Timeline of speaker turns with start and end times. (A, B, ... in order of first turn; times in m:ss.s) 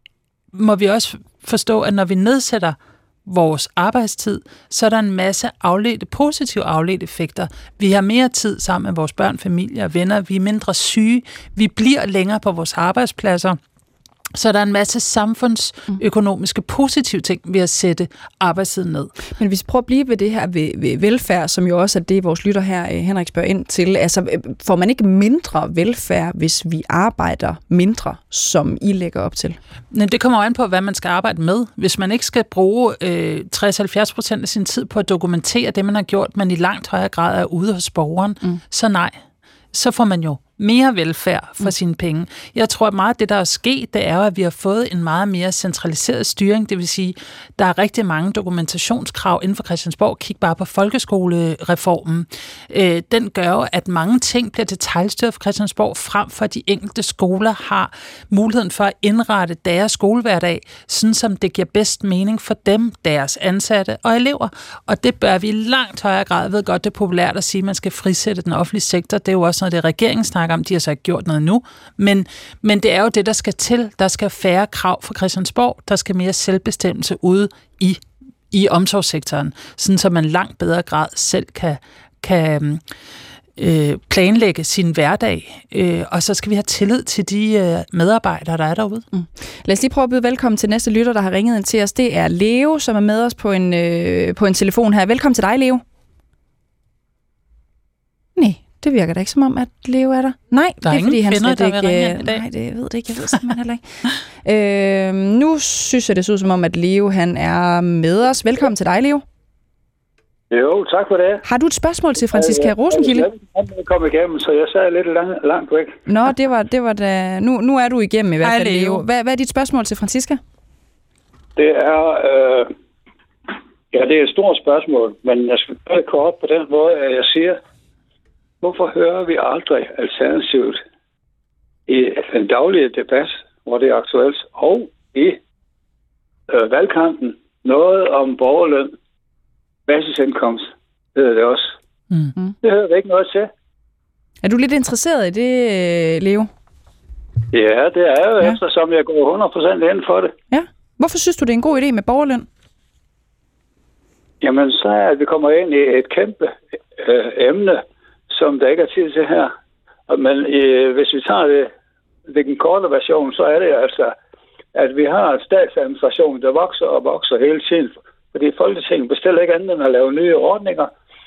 0:00.5-0:13.6 A
0:14.4-0:19.1 A
0:19.4-0:29.6 B
0:29.9-0:39.2 A
0:39.7-1:18.0 A
1:18.5-1:22.8 A
1:23.6-1:29.1 A
1:29.1-1:35.8 B
1:38.4-1:49.2 B
1:40.8-1:42.4 A
1:50.5-1:51.4 C
1:51.4-1:53.3 B
1:52.3-1:56.0 C
1:56.1-2:00.4 B
1:58.4-1:59.0 A
2:01.6-2:02.7 C
2:03.9-2:07.6 C
2:08.6-2:10.8 C
2:11.9-2:15.4 C
2:16.5-2:18.9 C
2:19.9-2:20.6 C
2:21.2-2:21.7 C
2:22.6-2:23.5 C
2:24.4-2:26.5 B
2:27.5-2:30.3 C
2:30.5-2:32.5 B
2:34.4-2:37.8 C
2:38.3-2:39.5 C
2:40.1-2:41.7 C
2:42.3-2:44.1 C
2:44.8-2:50.9 C